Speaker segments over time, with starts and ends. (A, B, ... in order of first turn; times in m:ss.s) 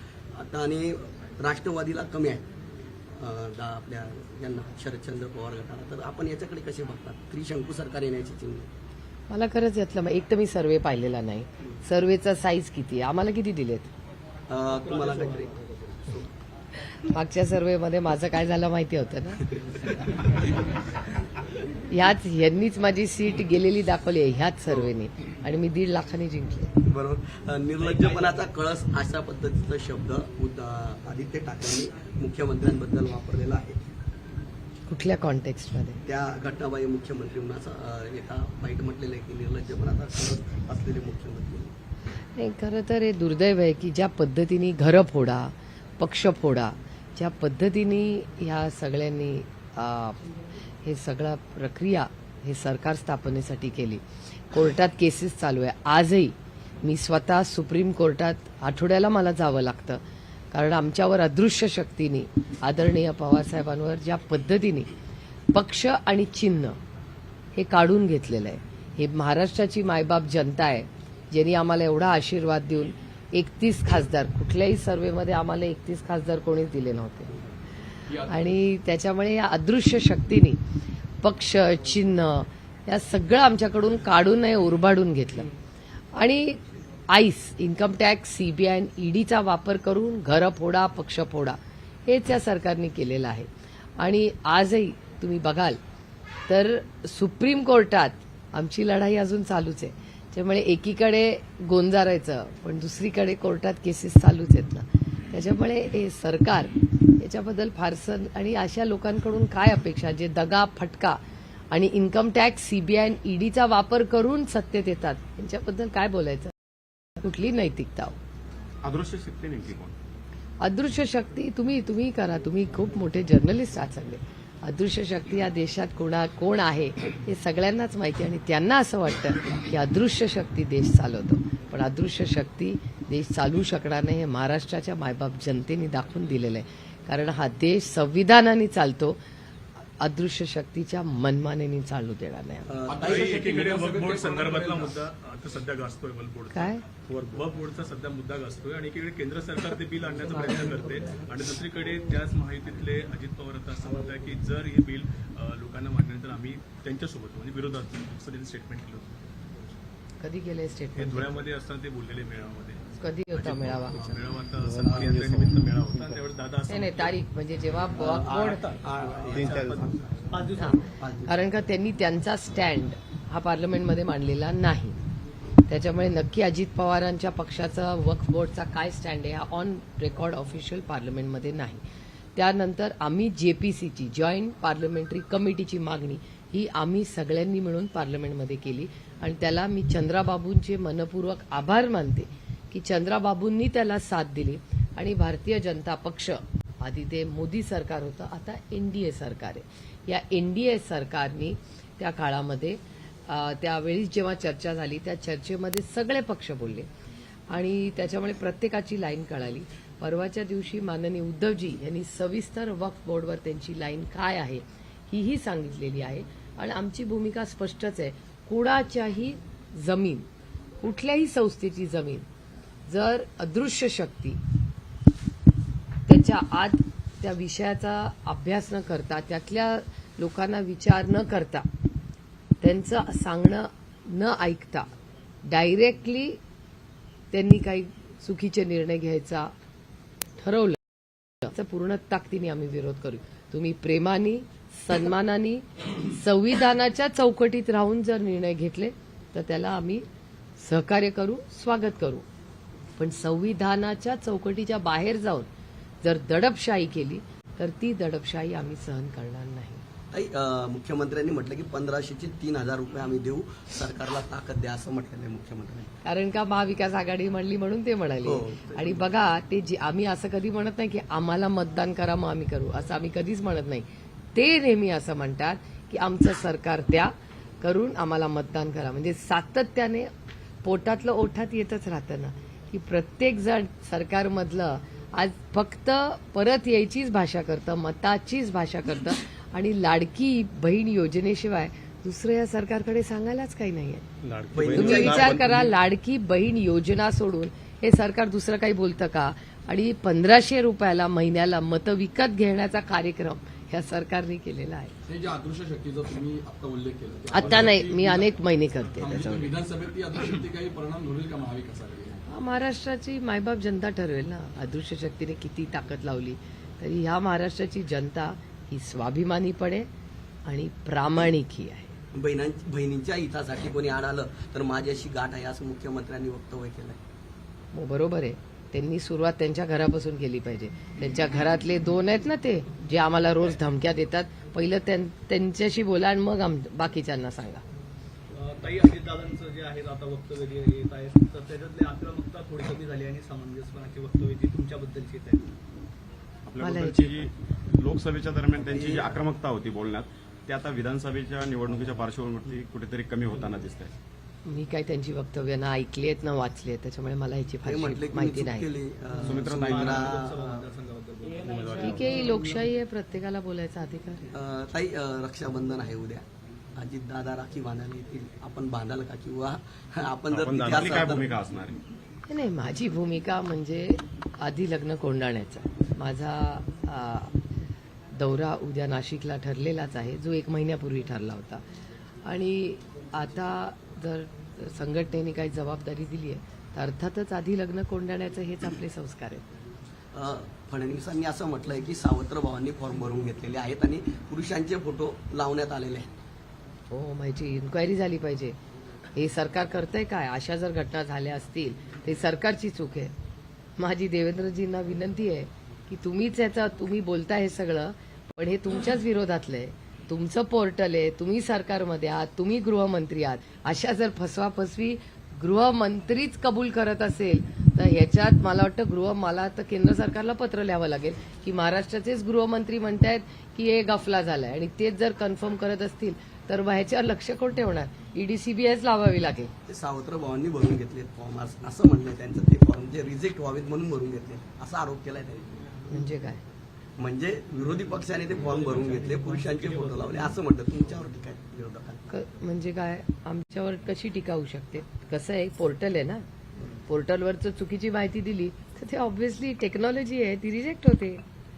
0:00.3-0:02.5 A
0:03.2-0:08.7 A
0:09.3-0:13.9 B
0:14.5-0:16.3 A
0:14.7-0:16.1 C
0:17.0-0:19.5 B
0:19.7-0:20.4 A
0:21.9-0:26.7 B
0:26.8-0:33.8 A
0:34.9-0:36.0 B
0:36.0-0:41.7 A
0:42.4-0:50.3 B
0:50.8-1:00.0 B
1:00.5-1:04.9 B
1:05.5-1:06.8 B
1:07.6-1:17.3 B
1:18.1-1:18.5 D
1:18.3-1:20.6 B
1:21.2-1:25.5 B
1:26.1-1:35.8 B
1:36.5-1:51.2 B
1:51.7-1:56.6 B
1:57.2-1:58.2 B
1:58.8-1:59.9 E
2:00.6-2:19.2 B
2:20.0-2:22.7 B
2:22.7-2:23.4 A
2:22.9-2:24.9 D
2:23.0-2:39.1 F
2:26.5-2:26.8 B
2:40.2-2:41.3 B
2:41.0-2:47.1 F
2:43.0-2:44.0 B
2:46.7-2:48.7 B
2:48.0-2:49.8 A
2:48.4-2:50.0 F
2:49.4-2:49.7 C
2:50.3-2:50.8 C
2:50.6-2:55.0 B
2:51.0-2:51.3 A
2:55.7-3:01.8 B
3:02.3-3:26.9 B
3:27.5-3:40.3 B
3:40.8-3:42.2 B
3:42.9-3:44.4 B
3:46.1-3:51.7 B
3:52.6-3:54.9 B
3:55.4-3:56.4 B
3:57.3-3:59.5 B
4:00.4-4:00.8 B
4:01.4-4:10.0 B
4:10.6-4:12.2 B
4:13.0-4:15.5 B
4:16.0-4:19.8 B
4:20.1-4:25.9 A
4:26.0-4:40.1 B
4:28.2-4:29.1 A
4:40.6-4:54.0 B
4:54.2-4:55.5 F
4:54.5-4:55.4 A
4:54.6-4:55.2 E
4:54.7-5:04.9 B
5:05.0-5:12.2 D
5:07.3-5:09.5 B
5:12.3-5:19.9 B
5:20.4-5:21.9 B
5:22.1-5:27.0 A
5:27.7-5:37.6 B
5:38.3-5:45.5 C
5:46.4-5:53.9 E
5:46.6-5:47.2 B
5:48.7-5:49.2 A
5:54.4-5:58.7 B
5:57.6-6:00.7 A
5:59.2-6:00.2 E
5:59.6-6:01.8 C
6:01.4-6:02.2 E
6:01.8-6:04.2 B
6:04.3-6:06.2 A
6:06.8-6:11.3 A
6:10.3-6:11.8 E
6:12.3-6:17.3 B
6:18.1-6:21.6 B
6:22.2-6:29.4 B
6:30.1-6:36.1 A
6:36.9-6:38.6 B
6:39.1-6:43.1 B
6:43.8-7:09.5 B
7:09.7-7:15.5 A
7:15.9-7:16.4 B
7:17.0-7:22.0 A
7:18.5-7:20.1 C
7:22.1-7:26.2 B
7:26.9-7:31.2 B